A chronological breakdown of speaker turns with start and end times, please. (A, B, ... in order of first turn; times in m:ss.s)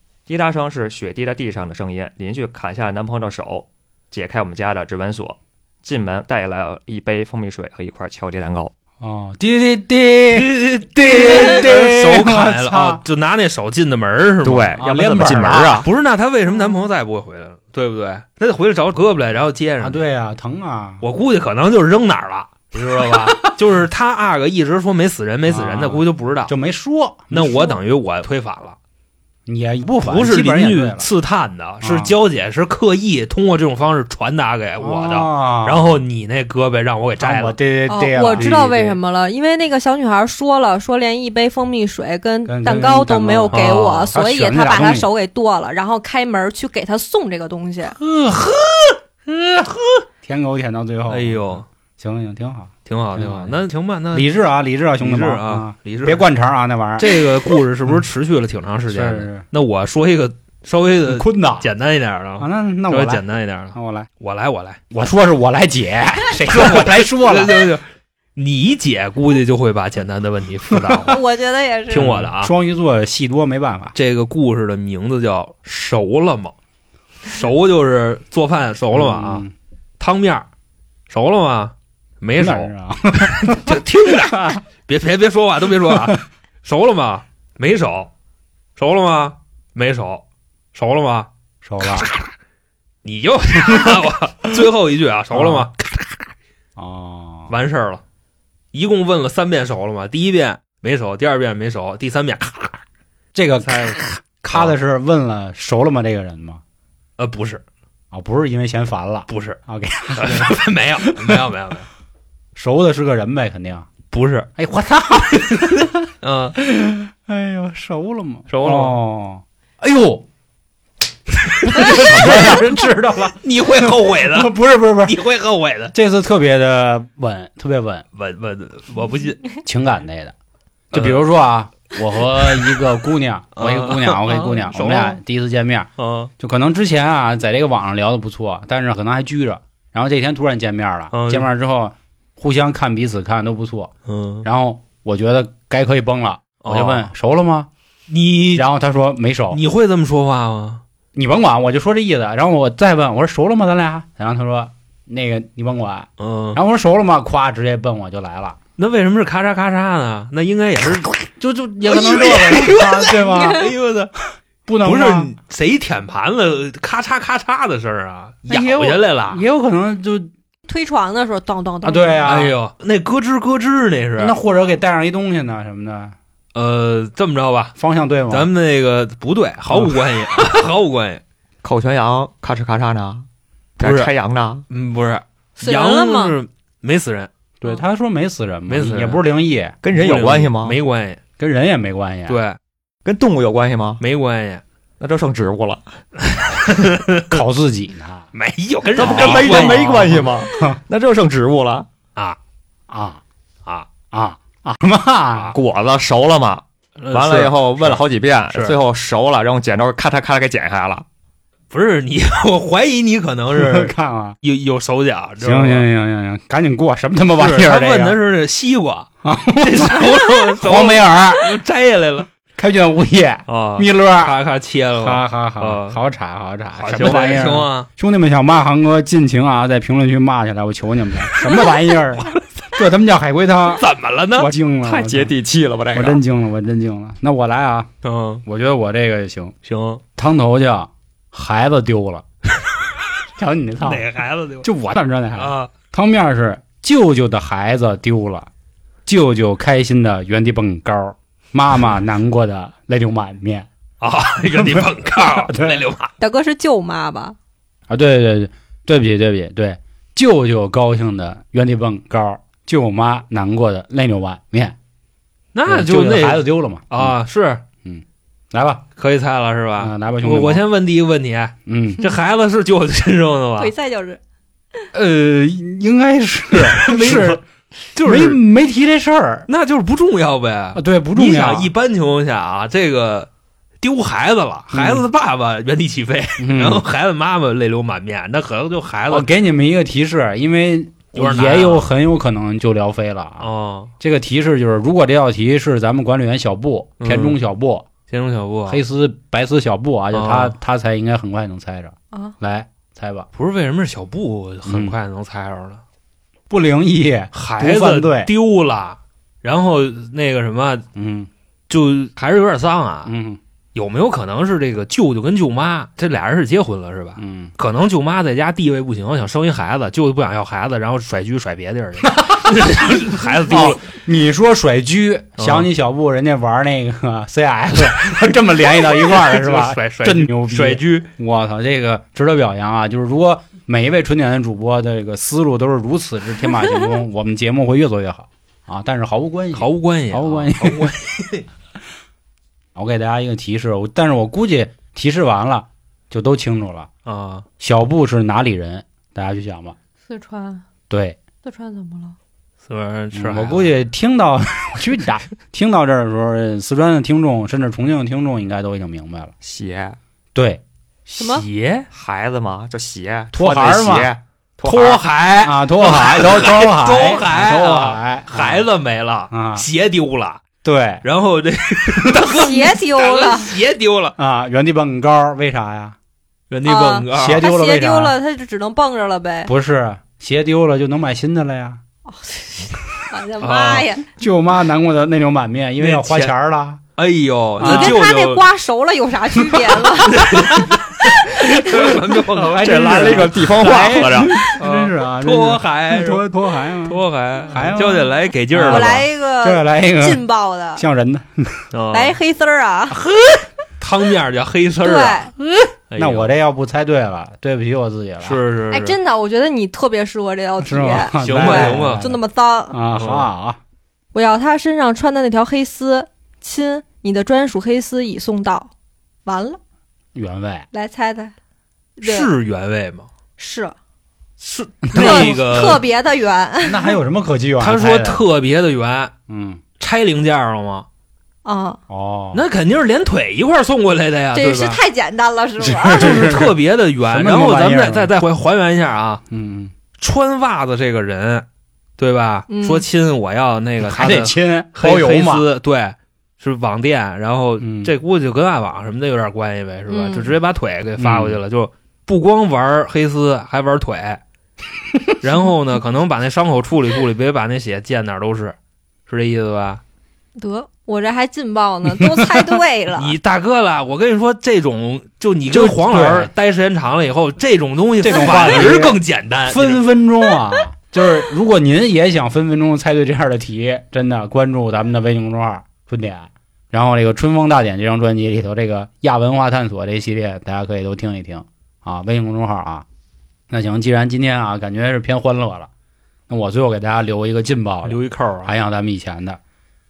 0:00.3-0:08.7 A
0:09.0-0:13.0 B
0:10.3-0:20.0 C
0:14.4-0:15.9 A
0:14.8-0:15.9 B
0:19.8-0:21.0 B
0:21.0-0:26.5 C
0:23.0-0:23.5 B
0:25.5-0:27.8 B
0:27.3-0:28.8 C
0:29.4-0:31.1 B
0:30.0-0:37.6 C
0:31.8-0:32.1 B
0:34.8-0:36.0 B
0:37.2-0:39.0 B
0:37.9-0:48.0 D
0:38.4-0:38.6 C
0:42.4-0:45.1 B
0:43.5-0:44.1 C
0:48.0-0:57.9 B
0:51.1-0:51.6 C
0:52.8-0:54.3 C
0:55.0-0:56.2 C
0:57.0-1:04.8 C
0:58.9-0:59.4 B
1:01.1-1:01.7 B
1:02.4-1:03.2 B
1:03.7-1:04.1 B
1:04.9-1:07.7 B
1:06.5-1:07.8 C
1:08.4-1:11.2 C
1:10.7-1:11.1 B
1:11.0-1:12.1 D
1:11.9-1:12.5 C
1:11.9-1:13.9 B
1:13.9-1:16.5 C
1:17.2-1:19.4 C
1:18.9-1:19.5 B
1:20.0-1:20.4 C
1:21.1-1:22.7 C
1:22.4-1:24.6 B
1:23.2-1:28.1 C
1:25.9-1:26.2 B
1:28.8-1:30.2 C
1:30.7-1:31.3 C
1:31.6-1:32.1 B
1:31.8-1:32.3 C
1:33.0-1:36.3 C
1:35.3-1:35.7 B
1:36.8-1:37.5 B
1:37.5-1:38.0 C
1:38.7-1:42.8 C
1:43.3-1:46.6 B
1:43.6-1:44.0 C
1:44.5-1:44.8 C
1:47.2-1:47.6 C
1:48.1-1:51.5 B
1:49.3-1:49.6 C
1:50.1-1:51.9 C
1:52.5-1:53.9 B
1:54.1-1:54.5 C
1:54.6-2:00.2 B
1:56.2-1:56.6 C
1:58.5-1:59.0 C
2:01.5-2:05.2 B
2:01.6-2:02.7 C
2:02.0-2:02.6 A
2:03.4-2:05.9 C
2:05.9-2:08.0 B
2:08.1-2:09.4 C
2:09.6-2:10.3 B
2:10.9-2:15.9 B
2:10.9-2:11.2 C
2:13.6-2:15.2 C
2:16.0-2:16.3 C
2:16.4-2:23.9 B
2:21.1-2:21.5 C
2:24.0-2:24.4 C
2:24.4-2:27.7 B
2:26.6-2:27.1 C
2:28.1-2:28.6 C
2:28.5-2:29.6 B
2:29.5-2:30.8 C
2:31.1-2:38.6 B
2:36.2-2:36.6 C
2:38.8-2:41.2 C
2:41.4-2:43.7 B
2:41.8-2:44.1 C
2:44.7-2:45.3 B
2:44.8-2:49.4 C
2:48.5-2:50.3 B
2:50.7-2:52.3 D
2:51.8-2:52.6 B
2:52.2-2:54.4 C
2:54.2-2:56.2 B
2:56.5-2:57.7 C
2:57.8-2:58.5 B
2:58.3-3:01.2 C
2:59.7-3:00.0 B
3:01.6-3:03.3 A
3:03.8-3:04.6 A
3:03.8-3:04.1 C
3:04.7-3:07.3 C
3:05.6-3:06.4 D
3:07.6-3:09.8 B
3:08.7-3:09.2 C
3:09.8-3:10.8 A
3:09.9-3:11.2 C
3:11.4-3:12.4 B
3:12.3-3:12.6 C
3:13.0-3:14.0 A
3:14.0-3:14.6 C
3:15.0-3:15.8 A
3:16.2-3:17.4 C
3:17.3-3:18.3 B
3:18.3-3:20.3 C
3:19.0-3:21.9 A
3:19.0-3:20.8 B
3:22.9-3:23.2 B
3:24.1-3:25.5 B
3:25.5-3:31.0 A
3:27.0-3:28.8 C
3:31.7-3:35.8 C
3:33.5-3:34.4 B
3:35.4-3:38.2 B
3:37.4-3:39.1 C
3:39.2-3:41.6 B
3:39.6-3:42.3 C
3:42.5-3:44.3 B
3:43.5-3:46.0 C
3:45.0-3:55.3 B
3:46.7-3:47.9 C
3:51.3-3:51.7 C
3:53.7-3:54.5 C
3:54.8-3:56.2 A
3:55.9-3:57.9 B
3:58.0-3:58.4 C
3:58.4-3:59.5 B
3:59.6-4:00.0 C
4:00.2-4:02.2 B
4:03.4-4:04.1 B
4:03.8-4:04.7 C
4:04.6-4:08.5 B
4:05.4-4:05.7 C
4:09.0-4:13.7 B
4:14.0-4:16.1 C
4:14.5-4:15.9 B
4:16.2-4:17.4 D
4:17.9-4:24.8 B
4:25.5-4:27.6 C
4:25.7-4:27.1 B
4:27.8-4:28.8 B
4:29.0-4:33.7 C
4:29.8-4:30.6 B
4:31.6-4:32.0 B
4:33.6-4:34.2 D
4:34.9-4:37.4 B
4:36.5-4:37.4 C
4:37.9-4:38.4 C
4:38.0-4:39.5 B
4:39.5-4:43.3 C
4:40.7-4:41.7 B
4:43.8-4:49.3 C
4:44.7-4:45.0 B
4:46.4-4:46.8 B
4:49.1-4:53.5 B
4:51.1-4:51.9 C
4:53.4-4:53.9 C
4:54.0-4:57.9 B
4:57.0-4:57.4 C
4:58.1-4:58.8 C
4:58.7-5:03.3 B
5:00.1-5:00.5 C
5:03.3-5:05.8 C
5:04.6-5:05.0 B
5:06.5-5:08.3 B
5:07.3-5:10.8 C
5:10.9-5:11.3 B
5:11.7-5:13.1 C
5:13.0-5:13.4 B
5:13.7-5:23.8 C
5:17.2-5:17.5 B
5:22.0-5:40.9 B
5:25.4-5:25.7 C
5:28.8-5:31.1 C
5:39.5-5:41.4 C
5:42.7-5:46.9 B
5:47.0-5:47.4 C
5:47.6-5:49.8 B
5:50.1-5:50.6 D
5:50.9-5:51.2 B
5:51.4-5:52.2 D
5:52.6-5:53.7 C
5:53.1-5:59.3 B
5:59.4-6:00.0 A
6:00.3-6:00.6 B
6:01.1-6:01.4 D
6:01.1-6:01.9 C
6:01.9-6:05.0 A
6:03.3-6:04.1 B
6:04.6-6:10.4 C
6:05.4-6:08.7 B
6:09.3-6:09.6 B
6:10.6-6:11.0 B
6:11.0-6:14.2 C
6:11.9-6:12.3 B
6:12.3-6:13.6 D
6:14.2-6:16.0 B
6:16.5-6:17.5 C
6:16.6-6:19.5 D
6:17.1-6:18.2 B
6:19.4-6:21.8 B
6:22.0-6:24.0 D
6:23.4-6:23.9 C
6:24.2-6:26.8 B
6:25.8-6:26.3 C
6:27.0-6:28.4 C
6:27.6-6:28.0 B
6:27.6-6:30.4 D
6:30.0-6:36.2 C
6:30.4-6:30.8 B
6:31.3-6:31.6 D
6:31.7-6:37.0 B
6:32.6-6:34.3 A
6:36.8-6:39.0 C
6:37.5-6:40.2 B
6:38.6-6:40.8 D
6:40.8-6:41.7 B
6:41.7-6:42.2 C
6:41.9-6:43.0 D
6:43.8-6:45.3 C
6:44.8-6:45.3 D
6:45.4-6:48.4 B
6:45.9-6:46.3 C
6:48.2-6:49.0 C
6:48.7-6:52.8 D
6:50.6-6:53.6 B
6:51.2-6:52.0 C
6:53.0-6:53.3 C
6:54.1-6:58.7 D
6:59.2-6:59.6 D
7:00.1-7:00.7 B
7:00.7-7:01.3 D
7:02.0-7:02.3 D
7:02.0-7:03.1 C
7:03.4-7:03.8 D
7:04.4-7:05.8 C
7:04.9-7:05.4 B
7:04.9-7:06.9 D
7:06.6-7:08.2 B
7:07.6-7:09.1 C
7:09.3-7:09.6 B
7:09.8-7:10.9 C
7:11.4-7:11.8 D
7:11.9-7:12.4 B
7:12.3-7:14.8 C
7:14.3-7:16.2 D
7:15.6-7:16.6 B
7:16.0-7:19.2 C
7:17.1-7:18.1 B
7:19.3-7:19.7 B
7:20.0-7:21.4 C
7:22.0-7:34.2 C
7:22.5-7:22.8 D
7:23.8-7:25.4 B
7:27.6-7:27.9 B
7:29.9-7:30.4 D
7:31.0-7:31.4 B
7:35.2-7:38.6 C
7:39.1-7:39.8 C
7:40.4-7:43.2 D
7:42.9-7:49.8 C
7:45.5-7:46.3 B
7:48.0-8:02.8 B
7:48.0-7:48.7 D
8:03.5-8:05.7 B
8:06.3-8:09.4 B
8:07.8-8:08.5 C